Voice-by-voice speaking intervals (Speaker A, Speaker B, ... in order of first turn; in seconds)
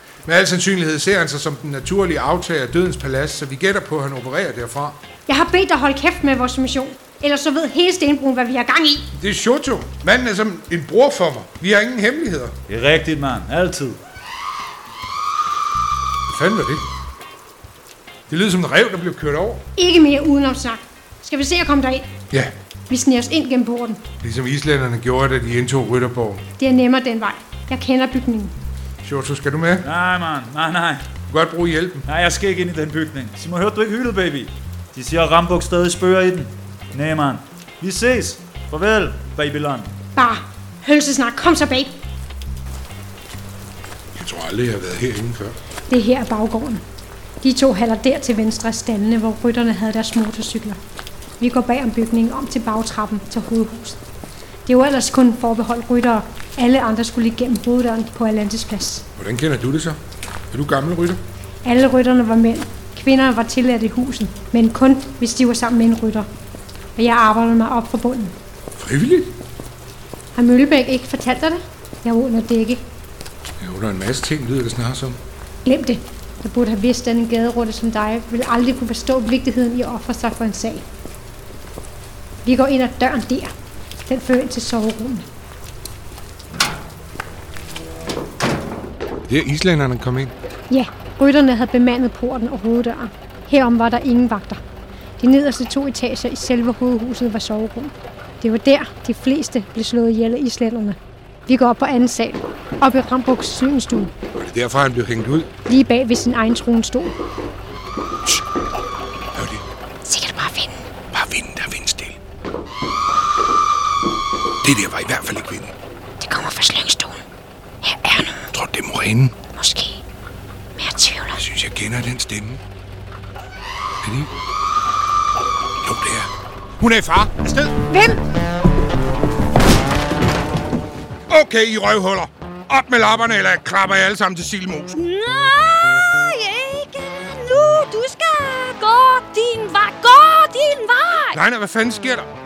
Speaker A: 0.2-5.0, 9.2-12.6, 16.3-16.8, 18.3-19.6, 24.2-26.4, 29.0-29.9, 31.3-32.0, 44.1-45.6, 59.2-60.0, 60.5-61.2, 68.8-69.3, 73.6-75.2, 89.3-90.3, 104.3-105.5, 109.3-109.6, 111.1-112.2, 114.6-115.7, 118.5-119.3, 121.4-122.6, 124.0-124.3, 125.8-127.8, 131.3-134.9, 141.3-142.3
Speaker B: 5.3-9.1, 19.8-22.1, 22.9-24.0, 26.6-28.5, 40.1-42.0, 45.9-46.8, 47.4-50.8, 51.4-54.0, 54.6-59.0, 61.6-66.3, 67.0-68.3, 70.3-72.8, 75.6-80.8, 82.4-83.5, 84.1-85.2, 90.7-94.6, 95.2-104.1, 105.7-107.1, 110.0-110.8, 116.2-117.2, 117.8-118.4, 119.5-120.0, 120.8-121.4, 127.9-128.2
Speaker C: 12.7-14.0, 29.8-31.1, 32.0-39.9
Speaker D: 134.9-141.4